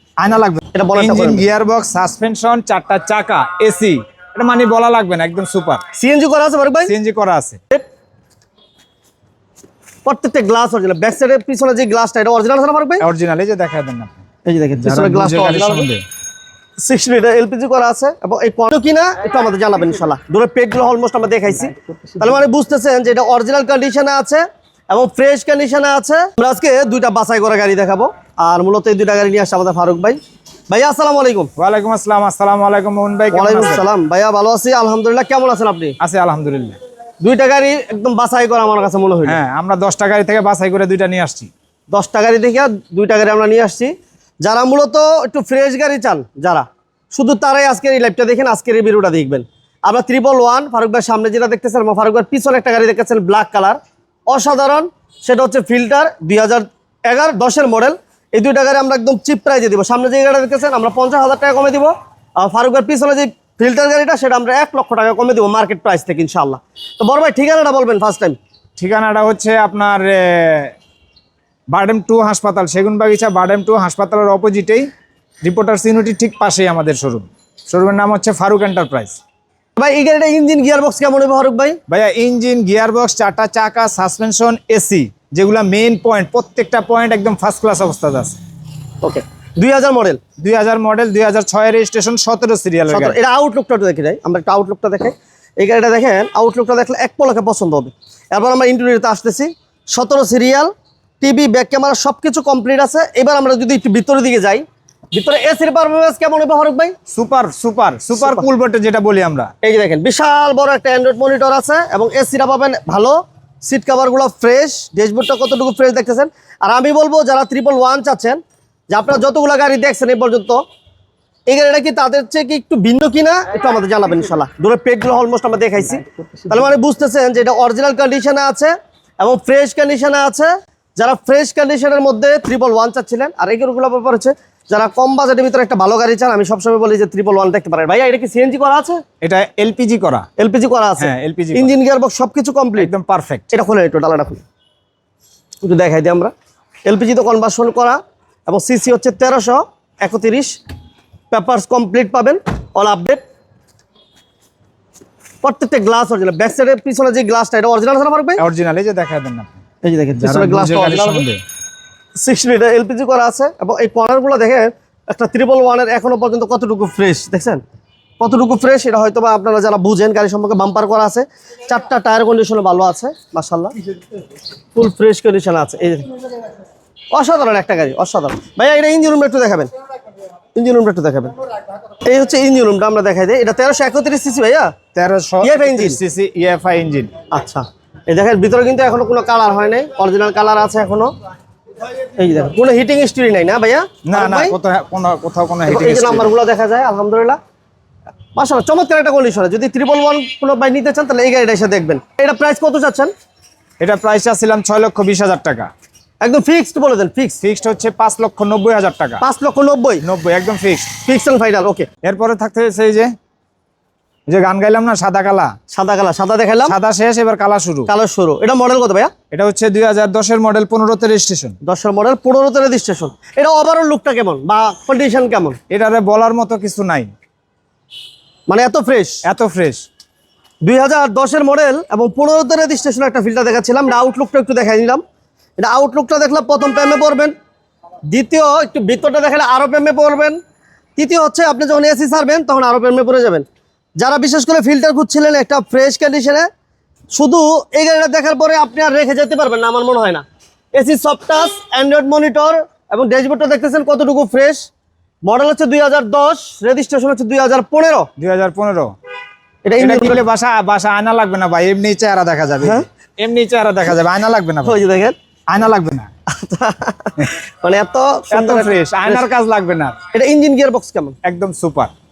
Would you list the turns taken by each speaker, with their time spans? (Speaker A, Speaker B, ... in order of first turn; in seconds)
Speaker A: 0.2-5.8, 6.9-7.6, 13.0-14.2, 14.8-16.0, 31.6-33.9, 36.0-36.8, 39.2-41.5, 68.8-70.7, 71.7-74.9, 75.4-79.2, 81.9-88.4, 90.4-93.2, 107.1-109.5, 139.2-140.3, 141.0-141.7, 142.8-143.5, 158.4-159.6, 160.2-161.4, 184.9-187.1, 194.1-196.3, 203.8-205.7, 207.4-209.2, 210.0-210.9, 212.0-213.1, 214.3-215.5, 216.7-217.9, 219.3-221.6, 225.7-227.1, 229.2-229.8, 258.2-258.9, 259.8-264.8, 265.5-266.1, 268.3-269.9, 271.2-271.9
Speaker B: 0.7-1.5, 6.0-6.9, 10.1-13.1, 14.5-15.9, 16.8-31.5, 33.3-36.0, 37.2-39.4, 41.9-68.4, 79.8-81.8, 89.0-90.2, 92.9-100.7, 101.2-107.0, 108.2-108.5, 109.6-118.4, 118.9-120.6, 121.5-139.0, 140.4-142.9, 143.5-144.4, 145.6-146.3, 146.9-150.6, 151.3-153.2, 155.4-158.4, 159.8-161.2, 162.2-167.6, 168.2-173.7, 174.8-176.2, 177.1-179.7, 180.6-181.3, 182.0-184.7, 185.4-186.0, 187.3-191.1, 192.1-194.6, 195.7-197.4, 198.4-203.1, 206.2-207.4, 209.2-210.0, 211.0-211.9, 215.7-216.8, 217.9-219.1, 221.6-225.6, 228.5-229.2, 230.6-235.0, 235.6-237.3, 238.1-240.4, 241.0-243.5, 244.0-246.5, 247.1-250.2, 250.8-254.7, 255.2-258.1, 259.6-260.2, 264.6-265.1, 266.3-269.2, 270.1-271.2